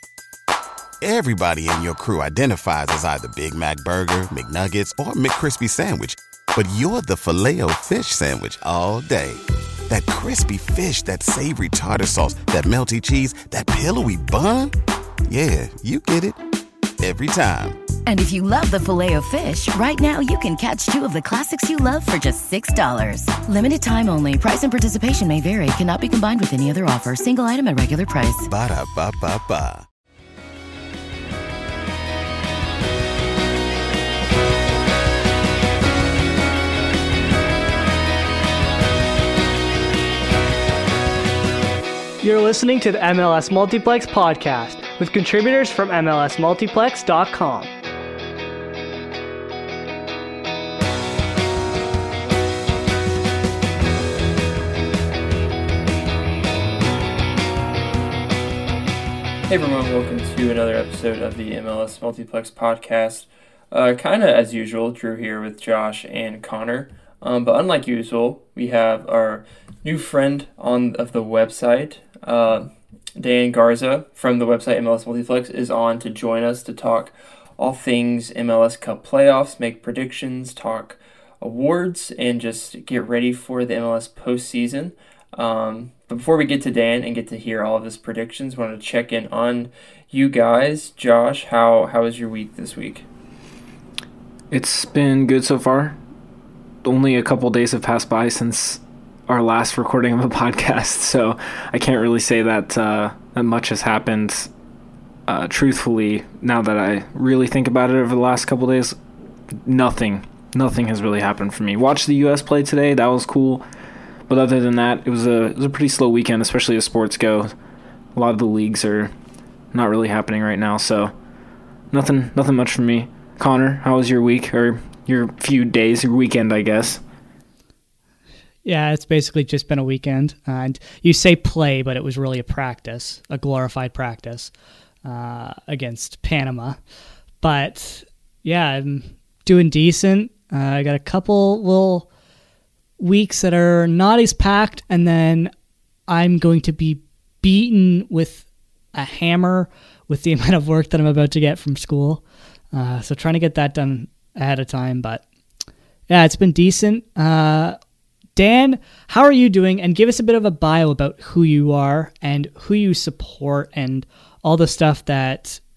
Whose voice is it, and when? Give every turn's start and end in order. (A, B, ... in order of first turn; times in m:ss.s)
0:01.0-0:14.7 A
0:15.3-0:16.4 A
0:17.0-0:17.8 A
0:18.0-0:28.5 B
0:28.4-0:29.8 A
0:42.2-0:47.7 C
0:59.5-1:33.0 D
1:34.5-1:36.0 E
1:36.8-1:44.5 E
1:45.3-1:49.0 E
1:49.6-1:53.7 E
1:54.3-1:57.6 E
1:58.2-1:59.1 E
1:59.7-2:01.1 E
2:01.9-2:07.0 E
2:08.6-2:14.5 C
2:15.0-2:16.8 C
2:17.4-2:22.1 C
2:23.0-2:25.5 C
2:26.1-2:35.2 C
2:36.1-2:37.8 C
2:38.4-2:45.6 C